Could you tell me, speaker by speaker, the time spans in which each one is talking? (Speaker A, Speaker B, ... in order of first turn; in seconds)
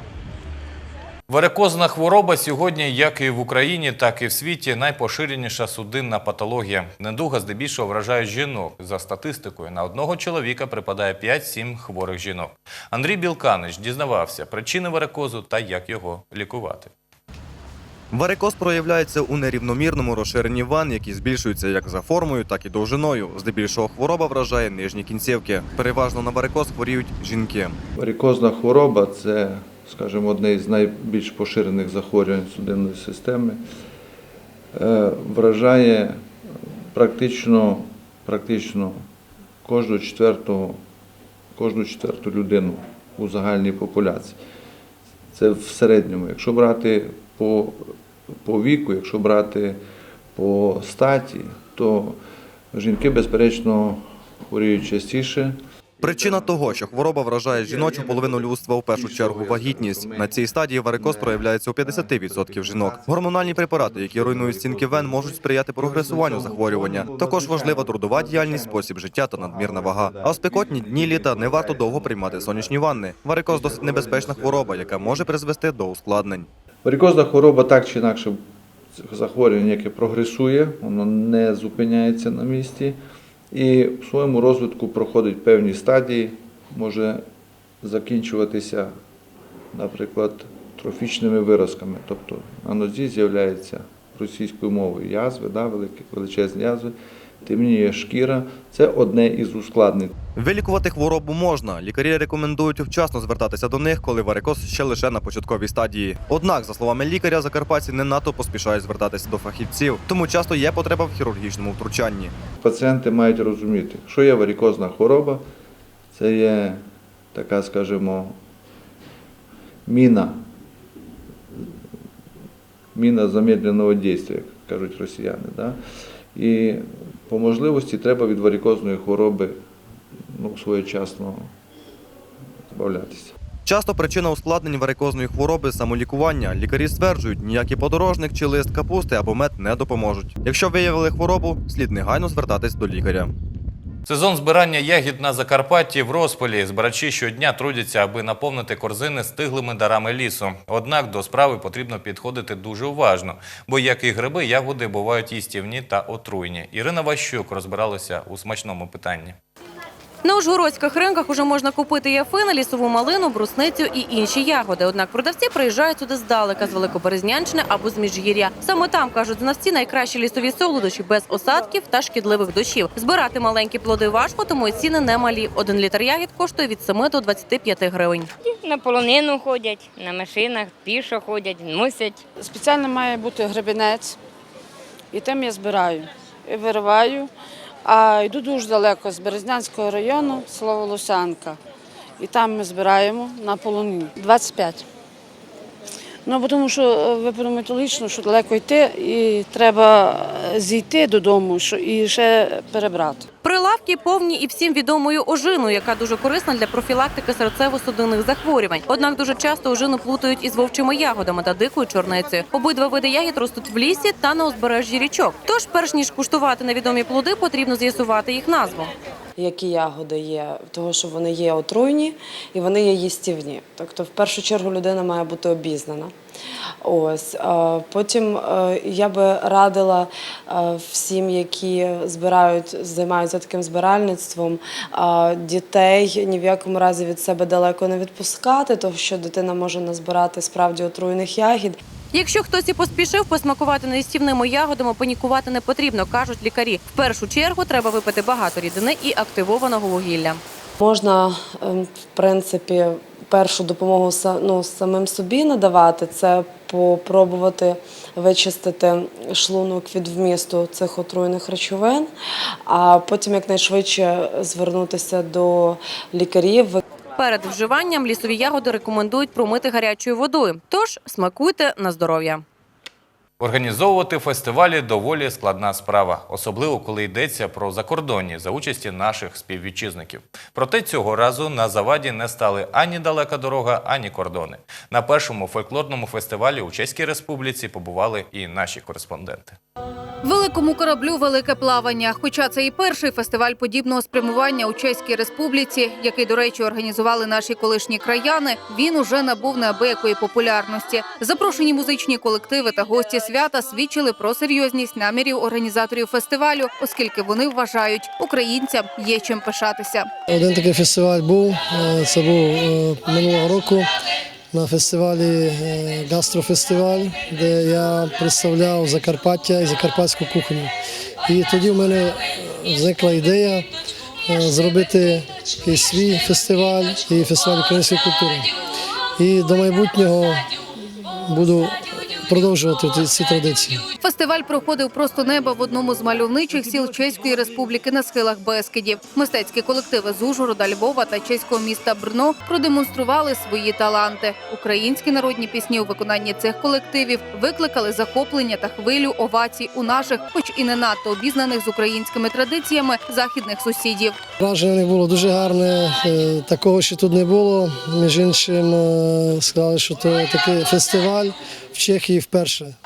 Speaker A: 1.3-16.9, 144.1-159.4, 273.4-289.6
Speaker B: 18.1-27.8, 56.0-76.5, 100.3-112.3, 133.7-143.3
Speaker C: 28.0-33.6, 34.7-36.3, 36.9-39.0, 39.6-40.8, 41.5-44.4, 45.3-49.8, 50.4-52.2, 52.7-55.6, 76.8-78.4, 79.0-83.0, 83.5-87.2, 87.8-88.9, 89.7-100.1, 112.6-115.4, 116.1-116.8, 117.3-118.4, 119.9-120.4, 123.0-125.8, 126.3-129.6, 130.3-131.5, 132.7-133.3
Speaker D: 160.2-178.3, 203.4-218.9, 242.1-250.4, 267.1-272.4
Speaker E: 178.4-182.2
Speaker F: 182.4-184.2, 185.1-187.3, 187.8-191.6, 192.2-194.8, 196.3-203.3
Speaker G: 219.4-226.1, 226.8-241.8, 250.8-262.1, 262.7-266.8
Speaker H: 290.2-310.1, 334.0-354.2
Speaker I: 310.3-313.9, 314.5-320.7, 321.2-323.7, 324.3-328.5, 329.2-330.4, 331.2-333.9, 354.4-362.8